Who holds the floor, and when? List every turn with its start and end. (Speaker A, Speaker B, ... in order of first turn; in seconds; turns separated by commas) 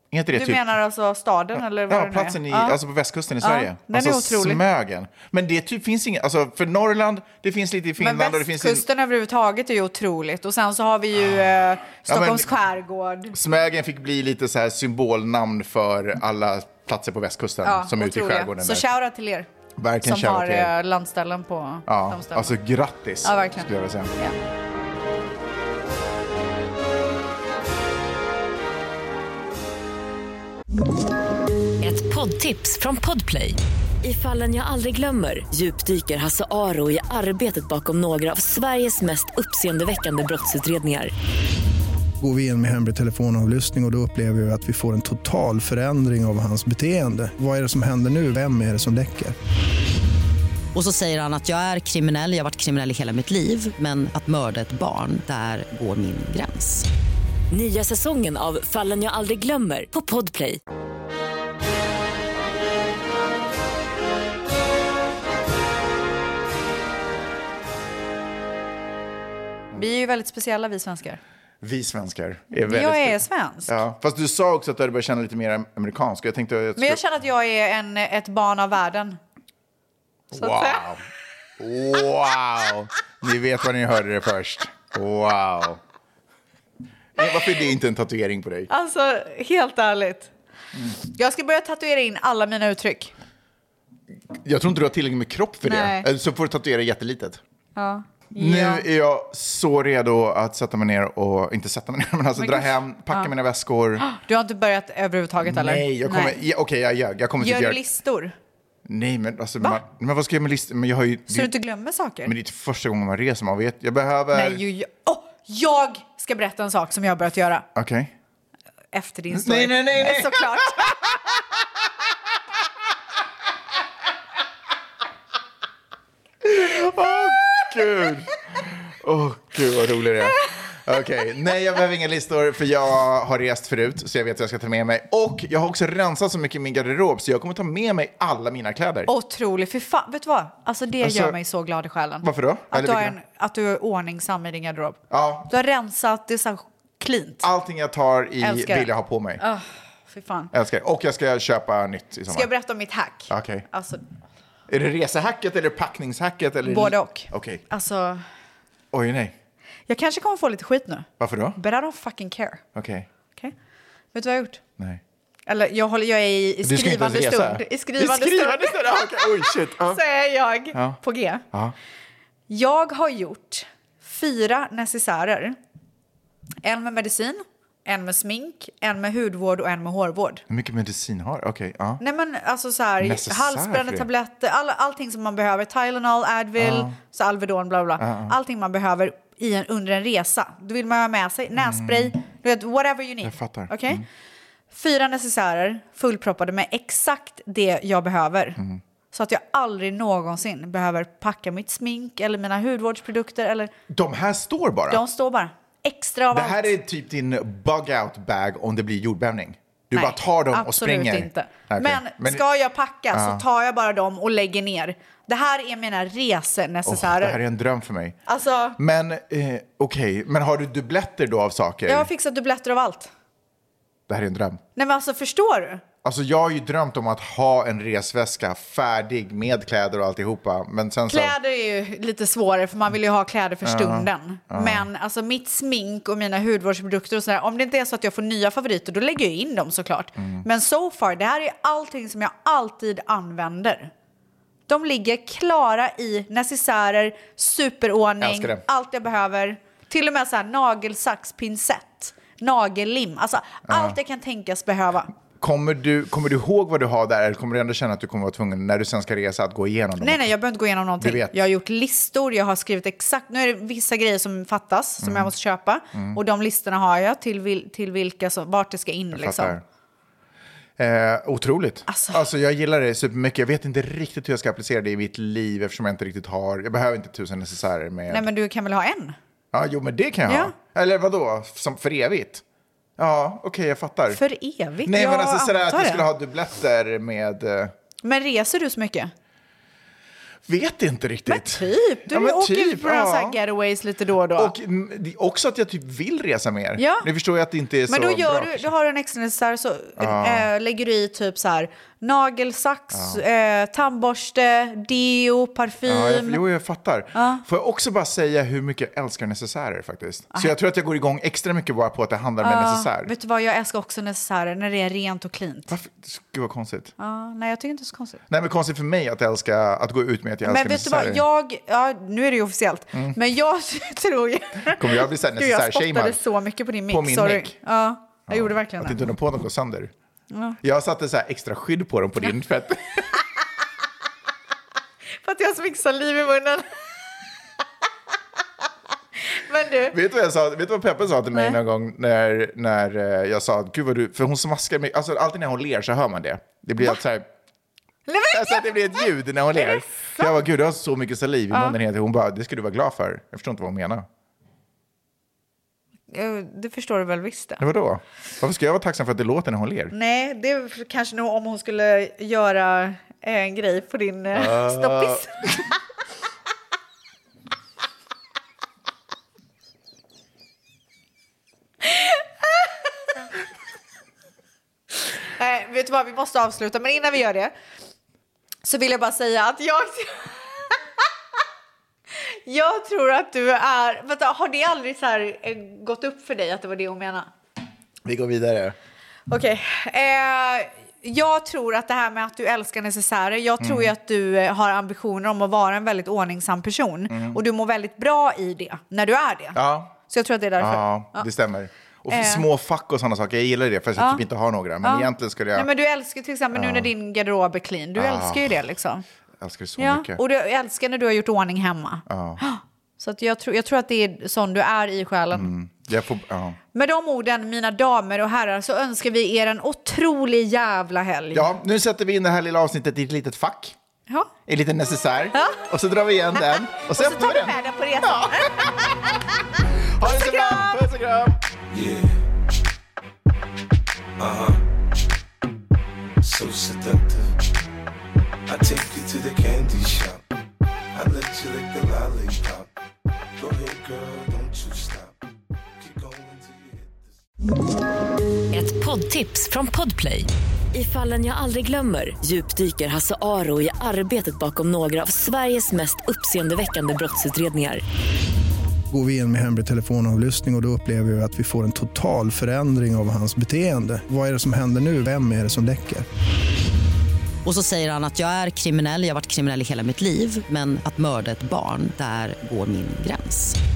Speaker A: 0.1-0.7, Speaker B: 0.3-2.8, Speaker A: 1.9-8.8, Speaker B: 3.4-4.6, Speaker B: 8.0-13.3, Speaker A: 12.1-12.5, Speaker A: 13.3-18.8, Speaker B: 17.6-19.5, Speaker A: 19.8-20.7, Speaker B: 20.0-22.6, Speaker A: 21.9-24.1, Speaker B: 23.2-24.3, Speaker C: 31.8-41.1, Speaker D: 42.2-49.3, Speaker E: 50.7-56.9, Speaker C: 57.5-60.6, Speaker B: 69.7-71.2, Speaker A: 71.6-77.0, Speaker B: 72.7-73.8, Speaker B: 76.8-79.2, Speaker A: 80.3-81.0, Speaker B: 80.3-80.9, Speaker A: 81.6-85.8, Speaker A: 87.2-88.7, Speaker B: 88.7-90.3, Speaker B: 91.1-93.1, Speaker A: 94.3-97.4, Speaker B: 95.6-96.1, Speaker B: 97.8-98.8, Speaker A: 98.3-104.0, Speaker B: 102.3-103.3, Speaker B: 104.0-106.4, Speaker A: 105.4-107.8, Speaker B: 107.4-108.3, Speaker A: 108.8-111.5, Speaker B: 111.3-112.3, Speaker A: 112.2-114.6, Speaker B: 114.3-117.7, Speaker A: 117.7-118.1, Speaker B: 118.9-120.9, Speaker A: 119.3-121.1, Speaker A: 126.4-139.1, Speaker B: 139.1-147.4, Speaker A: 141.0-141.4, Speaker A: 142.2-143.2, Speaker A: 145.1-145.5, Speaker A: 147.4-149.4, Speaker B: 148.4-150.5, Speaker A: 150.5-152.5, Speaker B: 152.3-154.0, Speaker A: 153.3-153.7, Speaker A: 154.7-157.6, Speaker B: 156.6-158.2, Speaker A: 158.9-159.3, Speaker B: 159.9-162.6, Speaker A: 161.2-161.6, Speaker A: 162.7-163.1, Speaker B: 164.1-164.6, Speaker B: 165.5-171.4, Speaker A: 166.6-170.0, Speaker A: 170.7-171.0, Speaker B: 172.5-175.6, Speaker B: 176.6-180.4, Speaker A: 180.5-182.0, Speaker B: 182.0-194.0, Speaker A: 183.0-184.1, Speaker A: 186.6-186.9, Speaker A: 188.0-188.3, Speaker A: 191.6-192.1, Speaker A: 193.2-194.0, Speaker B: 194.7-198.6, Speaker B: 199.1-203.7, Speaker A: 203.9-205.0, Speaker B: 204.9-206.7, Speaker A: 206.3-212.4, Speaker B: 209.9-217.4, Speaker A: 213.1-213.4, Speaker A: 216.8-218.2, Speaker B: 218.2-218.8, Speaker A: 218.8-222.1, Speaker B: 221.9-223.1, Speaker A: 224.1-224.6, Speaker B: 224.8-225.8, Speaker A: 226.0-231.3, Speaker B: 231.1-243.9, Speaker A: 233.6-234.9, Speaker A: 240.2-240.4, Speaker B: 244.7-255.1, Speaker A: 248.2-248.6, Speaker A: 253.7-254.0, Speaker A: 255.4-260.3, Speaker B: 260.0-269.6, Speaker A: 261.0-261.4, Speaker A: 265.0-265.3, Speaker A: 269.1-269.6, Speaker A: 270.8-278.2, Speaker B: 271.9-272.2, Speaker B: 278.1-279.1, Speaker A: 279.5-282.4, Speaker B: 280.3-280.5, Speaker A: 283.0-284.2, Speaker B: 284.1-286.1, Speaker A: 284.8-287.7, Speaker B: 288.0-289.1, Speaker A: 290.4-293.4, Speaker B: 291.3-294.5, Speaker A: 294.4-298.7, Speaker B: 296.8-297.1, Speaker B: 297.9-306.4, Speaker A: 300.0-300.5, Speaker A: 302.9-303.2, Speaker A: 305.9-313.1, Speaker B: 307.1-307.4, Speaker B: 312.4-315.7, Speaker A: 315.7-316.9, Speaker B: 317.0-318.2, Speaker A: 318.3-321.2, Speaker B: 320.4-329.0, Speaker A: 324.7-326.2, Speaker A: 326.9-327.6, Speaker A: 328.3-329.9, Speaker B: 330.3-330.6, Speaker A: 330.6-333.1, Speaker B: 335.2-336.8, Speaker B: 339.3-339.9, Speaker A: 339.9-347.3, Speaker B: 348.1-350.4, Speaker A: 348.3-354.1, Speaker B: 351.5-351.8, Speaker B: 356.1-357.6, Speaker A: 357.6-359.9, Speaker B: 359.9-365.4, Speaker A: 364.3-365.5, Speaker B: 371.8-372.7, Speaker B: 375.4-377.5, Speaker B: 378.6-380.8, Speaker B: 382.1-387.3, Speaker A: 388.0-388.8, Speaker B: 389.3-401.3, Speaker A: 393.6-393.9, Speaker A: 397.1-397.4, Speaker A: 399.5-399.9, Speaker A: 400.6-405.7, Speaker B: 402.1-402.4, Speaker B: 404.0-404.2, Speaker B: 404.8-409.0, Speaker A: 406.5-406.9, Speaker A: 407.9-408.5, Speaker A: 409.4-410.2, Speaker B: 409.8-415.5, Speaker A: 412.1-412.4, Speaker A: 415.3-416.6, Speaker B: 416.7-421.5, Speaker A: 421.3-423.7, Speaker A: 424.5-428.7, Speaker B: 425.3-425.6, Speaker B: 426.4-429.3, Speaker A: 430.0-431.4, Speaker B: 430.0-430.8, Speaker F: 431.7-432.2, Speaker F: 434.2-434.6, Speaker F: 436.2-437.3, Speaker F: 438.5-440.2, Speaker F: 440.9-442.6, Speaker F: 443.4-445.1, Speaker F: 445.8-447.0, Speaker C: 448.5-457.8, Speaker D: 458.9-466.1, Speaker E: 467.4-473.6